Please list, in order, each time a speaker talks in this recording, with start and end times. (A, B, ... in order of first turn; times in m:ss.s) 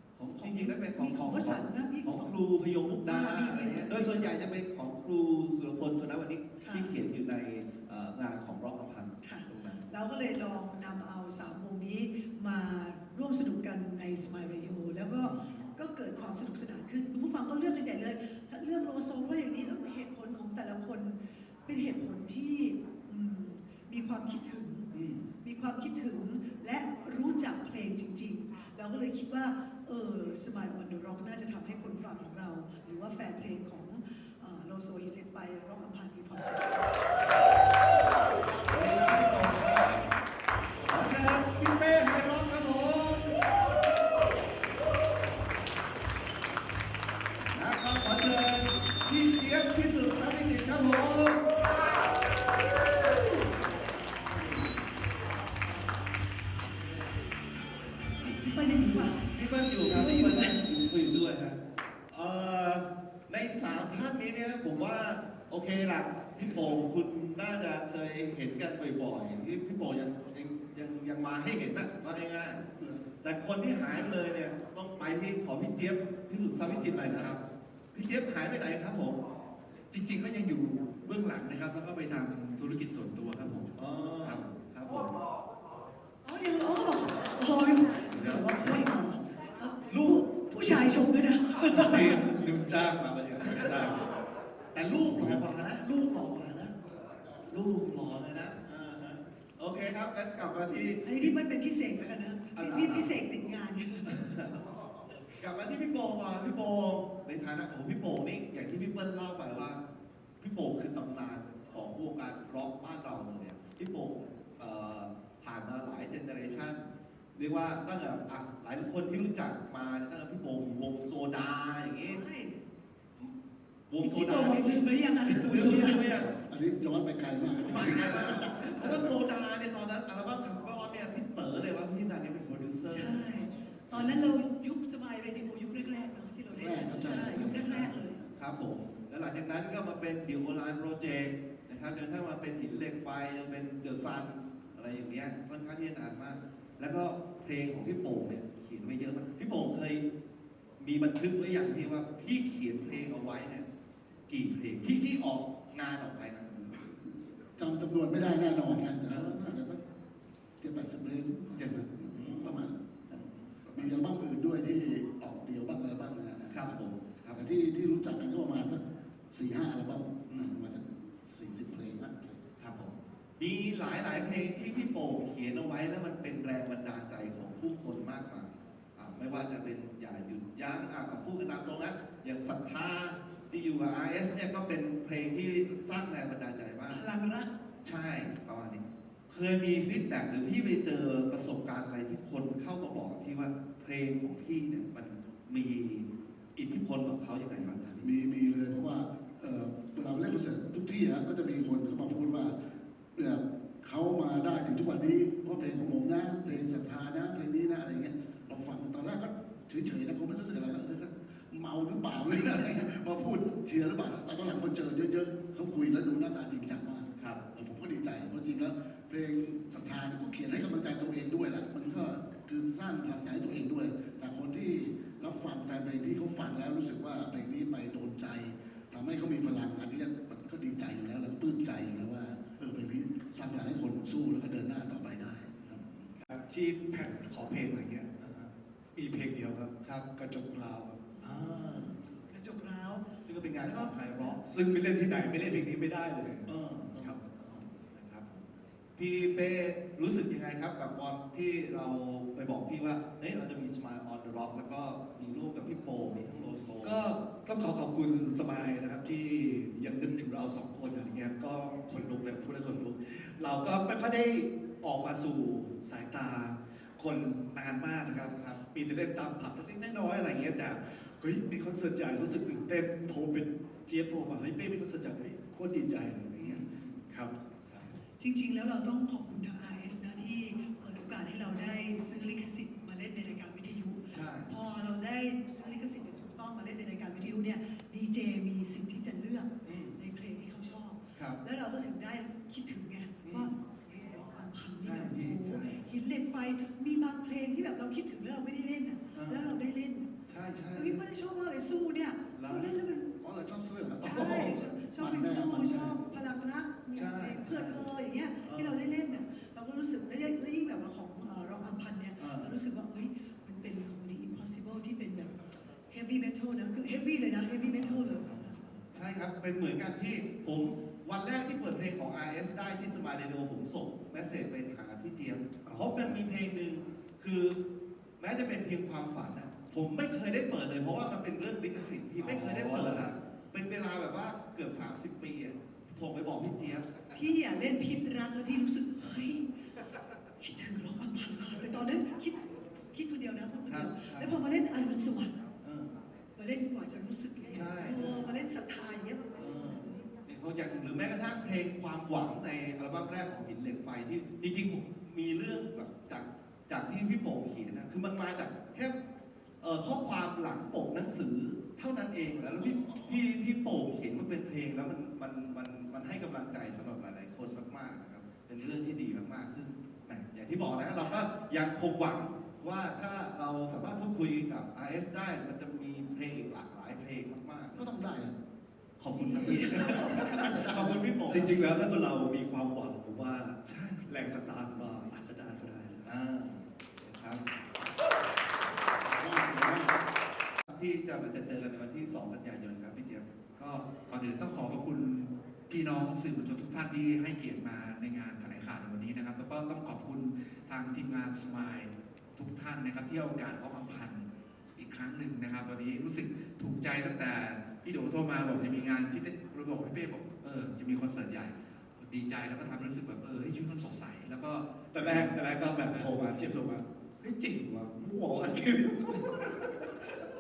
0:00.2-0:09.9 A
0:00.4-0:02.4 B
0:03.0-0:04.4 B
0:06.6-0:07.0 B
0:09.2-0:24.9 B
0:15.2-0:15.7 A
0:24.9-0:25.3 A
0:25.4-0:36.9 B
0:38.6-0:40.1 A
0:40.9-0:43.4 A
0:47.5-0:51.4 A
0:54.3-0:54.8 A
0:58.3-0:59.2 B
0:59.0-1:01.6 A
0:59.8-1:00.6 B
1:02.1-1:12.6 A
1:12.7-1:13.1 C
1:13.2-1:17.4 A
1:16.8-1:17.4 D
1:17.9-1:19.2 A
1:19.9-1:24.5 D
1:23.8-1:25.2 A
1:26.2-1:32.2 B
1:28.1-1:28.8 D
1:28.2-1:28.8 A
1:29.9-1:30.2 A
1:31.7-1:34.1 E
1:31.8-1:32.6 D
1:34.7-1:36.7 A
1:37.5-1:41.3 A
1:41.0-1:44.2 B
1:42.5-1:43.2 A
1:44.1-1:44.5 A
1:45.4-1:49.8 A
1:50.4-1:56.8 A
1:57.4-2:02.2 A
2:02.1-2:02.6 B
2:03.9-2:06.4 A
2:04.0-2:06.2 B
2:06.3-2:09.1 C
2:07.7-2:13.4 A
2:12.9-2:18.2 B
2:13.7-2:14.2 C
2:14.0-2:14.3 A
2:16.5-2:17.9 C
2:16.6-2:30.0 A
2:30.8-2:33.7 A
2:34.3-2:36.8 A
2:36.8-2:39.8 C
2:39.1-2:39.5 A
2:40.6-2:43.2 C
2:41.6-2:44.0 A
2:43.7-2:46.8 C
2:46.5-2:47.5 A
2:47.3-2:52.4 C
2:50.3-2:50.6 A
2:52.6-3:07.0 A
3:06.9-3:07.5 B
3:07.8-3:18.1 A
3:18.0-3:22.6 C
3:23.2-3:56.1 C
3:56.3-3:58.1 E
3:58.2-3:58.5 A
3:59.0-4:01.1 E
4:01.1-4:04.4 B
4:01.2-4:02.0 A
4:03.2-4:04.4 A
4:04.4-4:07.2 E
4:06.5-4:17.0 A
4:16.8-4:37.4 E
4:28.1-4:28.6 A
4:36.4-4:37.1 A
4:37.7-4:38.0 A
4:38.2-5:00.1 B
4:44.1-4:44.5 A
4:49.6-4:50.0 A
4:53.2-4:53.5 A
4:54.8-4:55.9 A
4:59.1-4:59.6 A
5:00.3-5:01.0 A
5:00.8-5:03.1 B
5:02.3-5:02.8 A
5:03.2-5:06.0 C
5:04.0-5:18.5 B
5:07.0-5:07.9 A
5:08.4-5:08.8 A
5:12.2-5:12.5 A
5:17.8-5:27.6 A
5:25.6-5:26.2 E
5:28.2-5:36.9 A
5:32.2-5:33.1 E
5:37.1-5:39.5 B
5:40.4-5:45.4 B
5:43.7-5:44.4 A
5:45.6-5:46.0 A
5:46.4-5:50.0 B
5:47.5-5:48.3 A
5:49.4-5:59.0 A
5:59.6-6:17.8 A
6:17.7-6:18.4 C
6:19.0-6:21.6 A
6:19.2-6:21.0 C
6:19.5-6:20.6 E
6:21.3-6:26.1 E
6:23.6-6:24.1 A
6:24.7-6:25.1 A
6:26.0-6:27.4 A
6:29.0-6:30.0 C
6:30.7-6:33.3 A
6:33.6-6:55.4 D
6:54.9-7:00.2 E
6:55.9-6:56.1 D